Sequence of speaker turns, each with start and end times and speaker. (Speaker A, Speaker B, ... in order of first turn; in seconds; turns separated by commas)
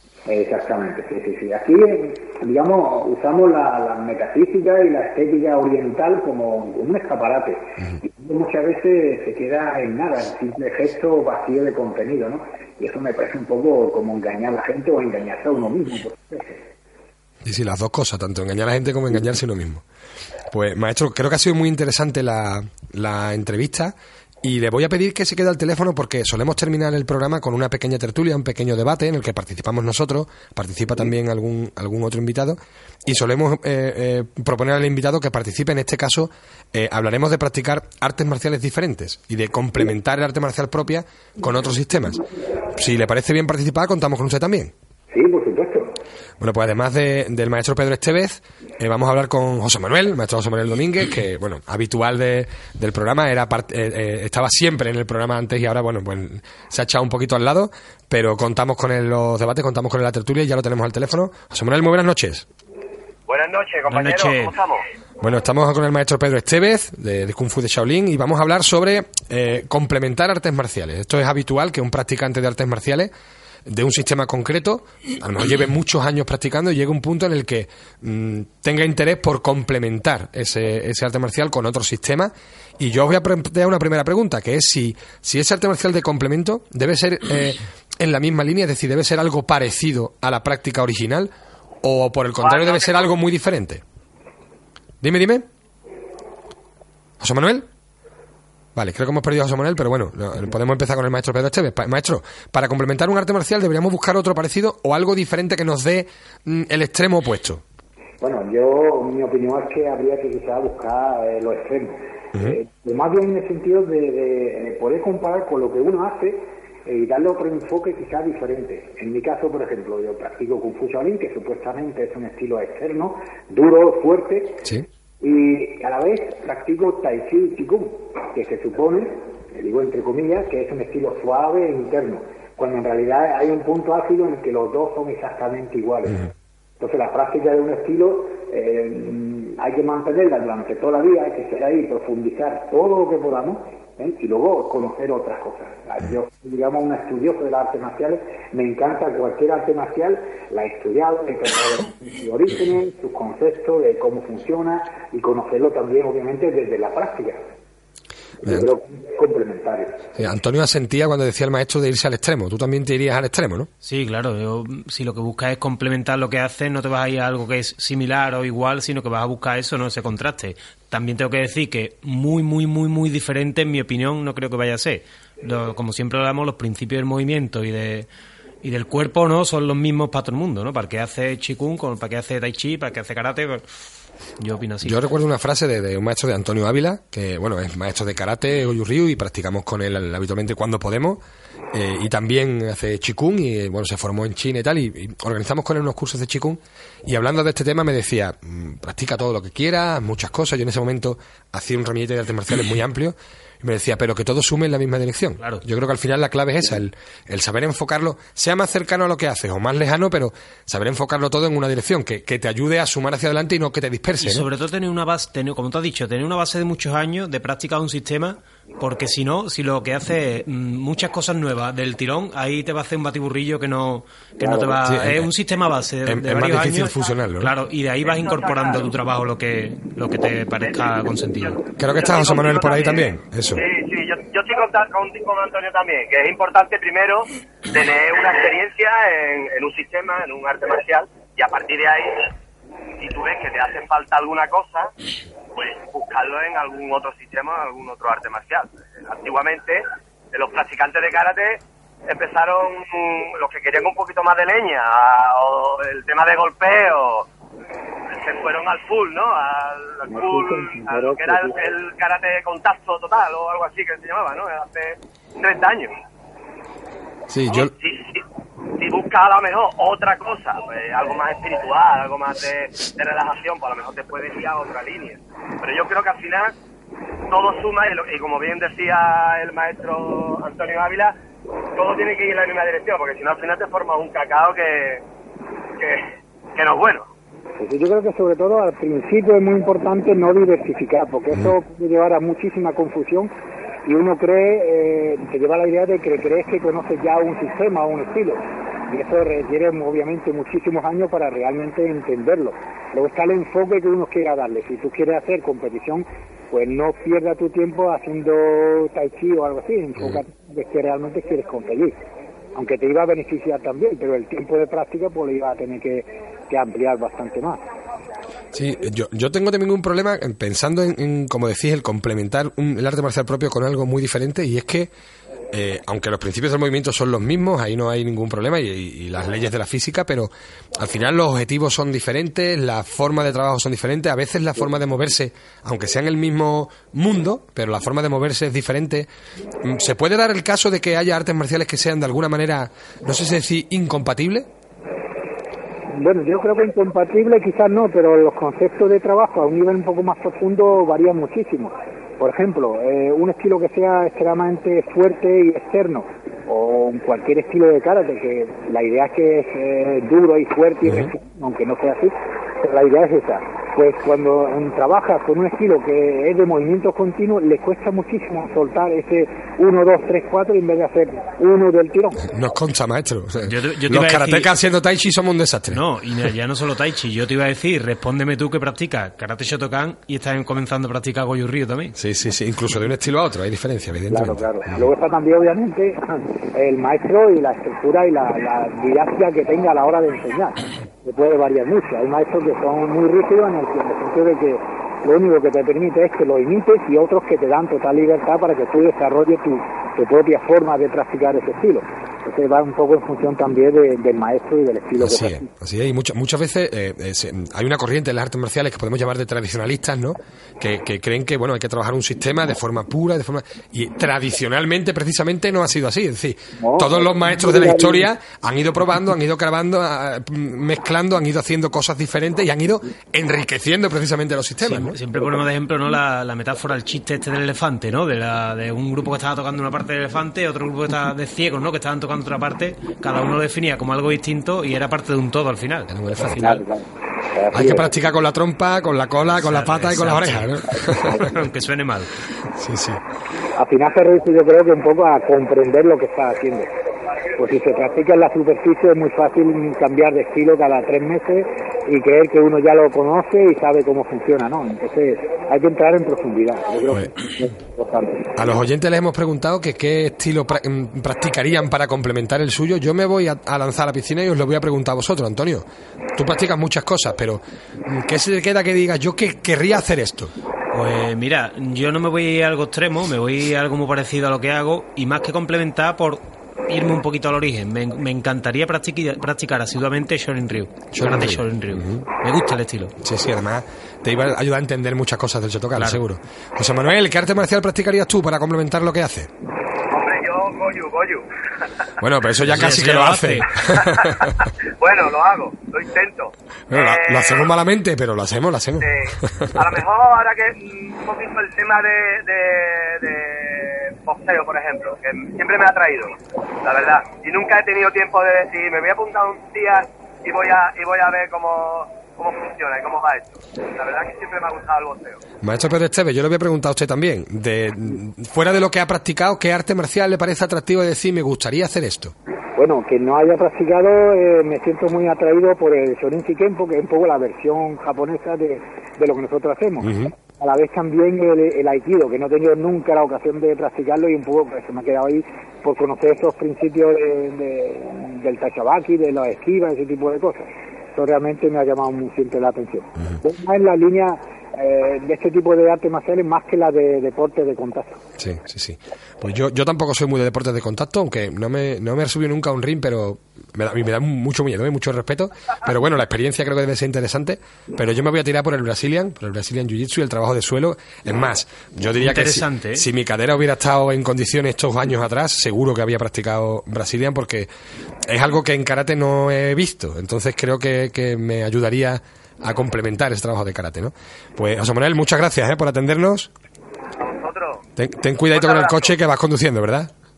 Speaker A: 0.3-16.7, Speaker B: 17.4-19.8, Speaker B: 20.5-44.7, Speaker A: 45.1-46.0, Speaker B: 46.4-62.5, Speaker C: 63.3-64.8, Speaker D: 63.9-64.5, Speaker B: 65.2-73.1, Speaker B: 73.7-91.3, Speaker B: 91.8-93.8, Speaker C: 92.4-93.1, Speaker B: 95.0-95.5, Speaker B: 97.2-97.7, Speaker B: 98.8-107.6, Speaker A: 108.2-124.7, Speaker A: 125.2-136.3, Speaker A: 136.8-157.4, Speaker A: 158.4-160.1, Speaker B: 160.2-163.7, Speaker D: 163.8-178.1, Speaker D: 178.6-183.6, Speaker D: 184.4-185.0, Speaker B: 184.8-191.2, Speaker B: 191.7-214.5, Speaker D: 214.2-231.6, Speaker B: 224.8-225.3, Speaker B: 226.1-227.5, Speaker C: 228.1-228.9, Speaker C: 231.4-242.3, Speaker B: 231.8-233.7, Speaker C: 243.0-244.9, Speaker C: 245.6-257.3, Speaker C: 258.1-265.9, Speaker A: 260.1-261.6, Speaker B: 267.3-267.7, Speaker C: 267.5-268.2, Speaker C: 268.8-276.6, Speaker C: 277.3-281.2, Speaker C: 281.8-285.0, Speaker C: 285.8-287.1, Speaker A: 287.6-293.3, Speaker A: 293.9-312.0, Speaker A: 312.5-317.6, Speaker B: 318.5-324.9, Speaker B: 325.5-339.1, Speaker B: 339.6-344.5, Speaker A: 345.9-372.3, Speaker B: 372.3-375.8, Speaker D: 373.5-374.5, Speaker D: 375.7-381.9, Speaker B: 382.0-384.4, Speaker A: 384.1-405.5, Speaker B: 405.0-425.0, Speaker A: 416.6-418.1, Speaker D: 424.6-436.6, Speaker B: 435.9-436.6, Speaker A: 436.4-437.9, Speaker B: 437.5-441.3, Speaker D: 439.4-442.1, Speaker B: 442.5-443.0, Speaker A: 443.6-446.7, Speaker A: 447.3-458.4, Speaker B: 456.9-457.2, Speaker B: 458.4-470.3, Speaker D: 470.7-482.9, Speaker B: 480.9-482.0, Speaker B: 483.0-489.3, Speaker D: 485.8-486.0, Speaker C: 489.9-491.3, Speaker B: 492.0-494.4, Speaker D: 492.5-493.6, Speaker C: 493.6-497.5, Speaker B: 496.7-499.7, Speaker C: 498.8-515.2, Speaker B: 515.4-522.1, Speaker A: 522.5-548.0, Speaker B: 529.9-530.1, Speaker B: 548.2-567.5, Speaker D: 562.0-562.9, Speaker B: 568.1-576.3, Speaker C: 577.0-577.6, Speaker B: 577.8-579.9, Speaker C: 578.3-578.9